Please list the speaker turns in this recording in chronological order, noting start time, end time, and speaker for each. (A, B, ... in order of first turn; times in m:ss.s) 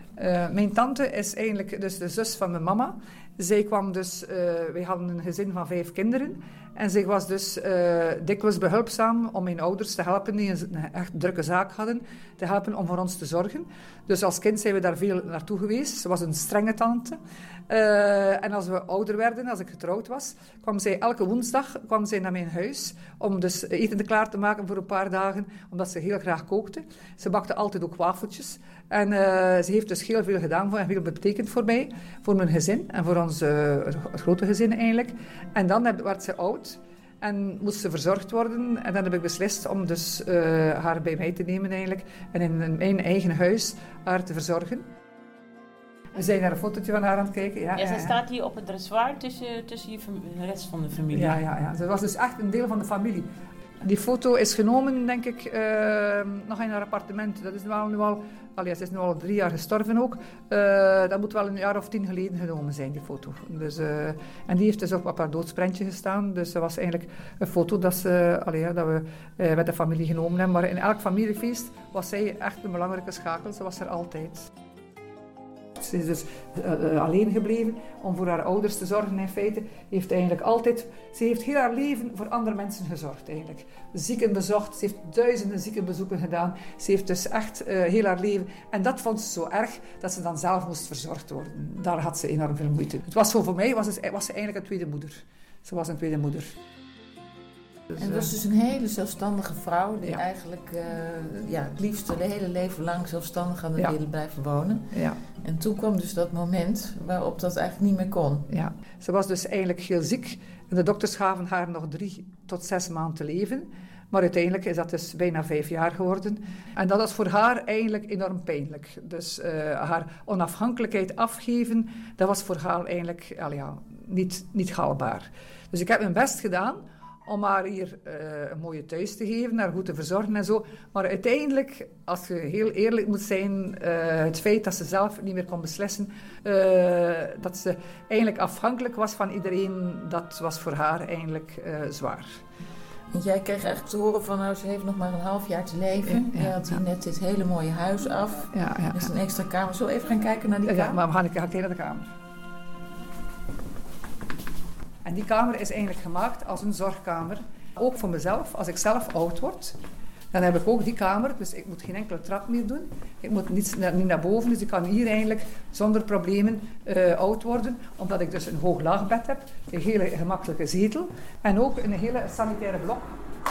0:00.2-0:17.2 A
0:17.7-0:44.9 A
0:46.2-0:48.2 A
0:47.8-0:51.4 B
0:51.1-0:53.3 A
0:53.8-1:14.5 A
1:15.8-1:36.5 A
1:38.0-1:38.3 A
1:38.0-1:48.4 C
1:44.9-1:45.2 A
1:48.5-2:22.4 A
2:23.1-2:31.0 C
2:26.0-2:26.8 A
2:28.5-2:29.1 A
2:30.6-2:32.1 A
2:35.0-2:39.8 A
2:40.3-2:53.2 A